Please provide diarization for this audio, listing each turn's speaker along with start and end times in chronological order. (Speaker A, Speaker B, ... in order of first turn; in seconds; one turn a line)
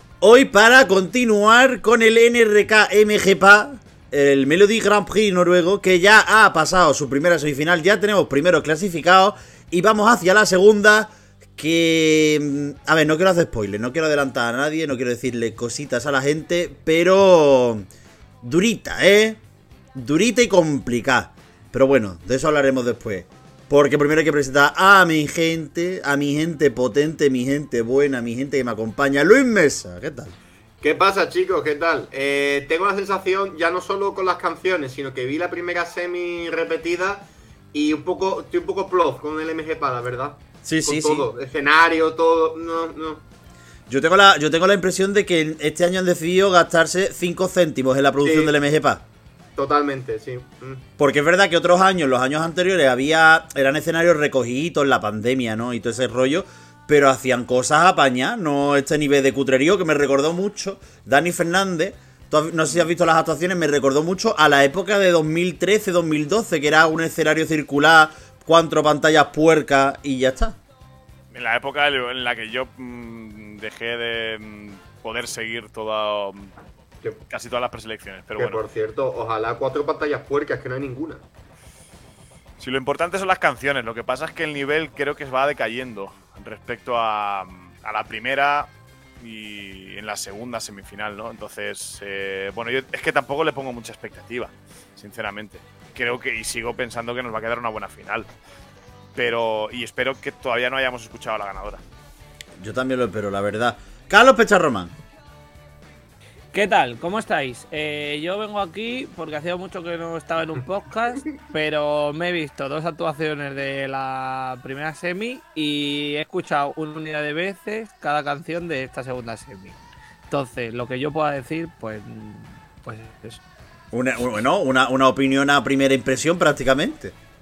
Speaker A: 0.2-17.9
Speaker A: 18.4-19.4
Speaker A: 19.9-30.4
Speaker B: 30.8-43.2
Speaker A: 40.6-41.3
Speaker A: 43.9-49.0
Speaker B: 48.2-48.5
Speaker B: 49.5-50.9
Speaker A: 51.0-70.6
Speaker C: 71.3-76.5
Speaker C: 77.3-78.6
Speaker B: 78.3-81.2
Speaker C: 82.6-98.3
Speaker C: 99.2-101.8
Speaker A: 102.6-104.9
Speaker D: 106.5-119.8
Speaker D: 120.3-123.4
Speaker A: 123.9-127.1